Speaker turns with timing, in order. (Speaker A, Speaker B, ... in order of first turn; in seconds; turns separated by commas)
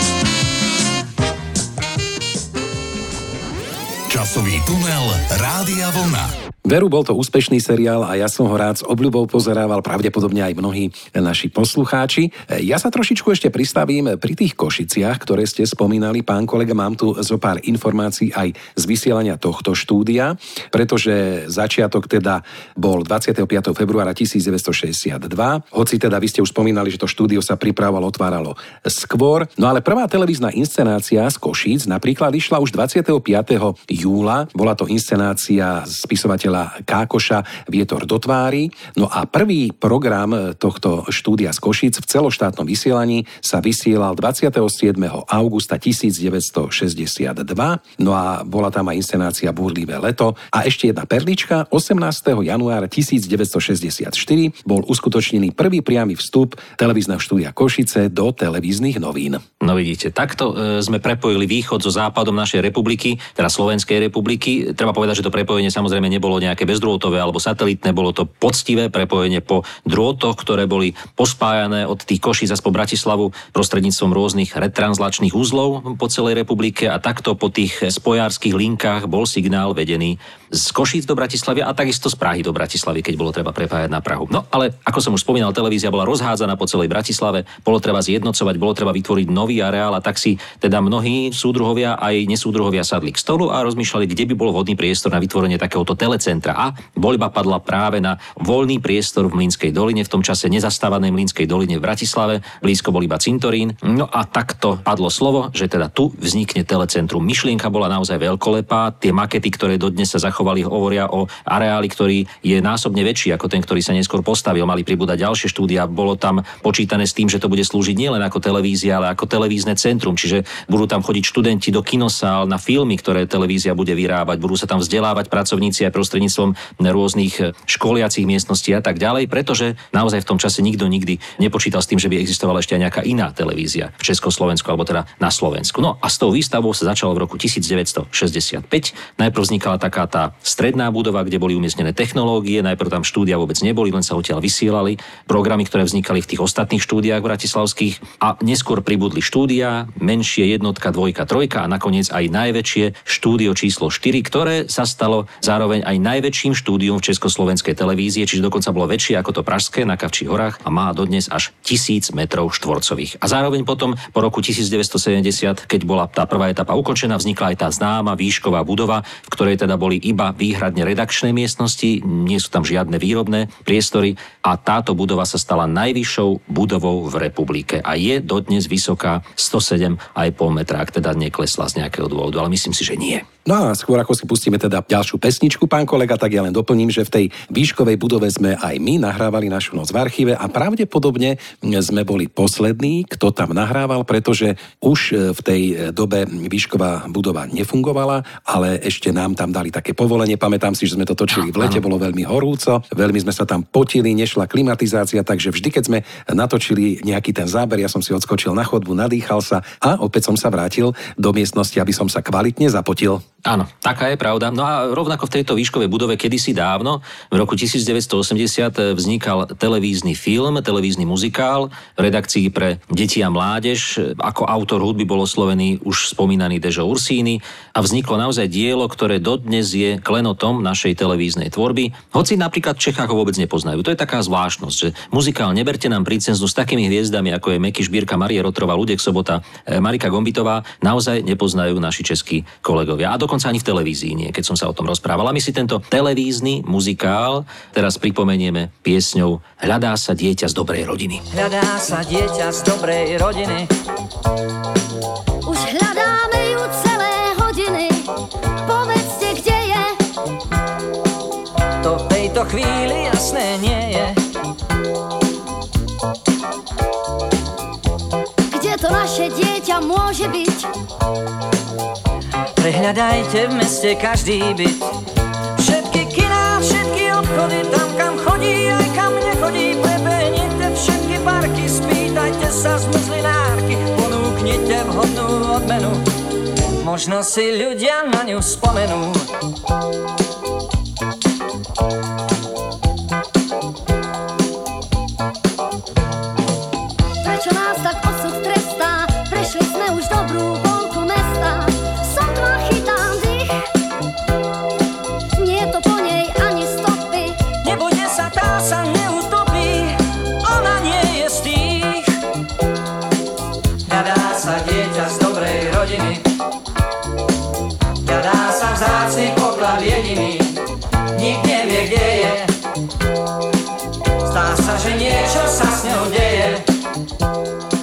Speaker A: 4.1-6.3, Speaker B: 6.6-59.4, Speaker C: 59.6-183.2, Speaker B: 183.4-213.2, Speaker C: 213.4-251.2, Speaker D: 251.3-253.7, Speaker E: 255.4-258.1, Speaker E: 258.6-260.0, Speaker D: 261.8-264.2, Speaker E: 268.5-270.7, Speaker D: 272.6-274.9, Speaker D: 275.6-286.0, Speaker D: 286.8-289.3, Speaker E: 297.2-303.6, Speaker E: 305.4-307.4, Speaker D: 307.6-312.1, Speaker D: 313.9-316.2, Speaker D: 318.0-320.6, Speaker D: 321.1-322.5, Speaker D: 324.2-326.6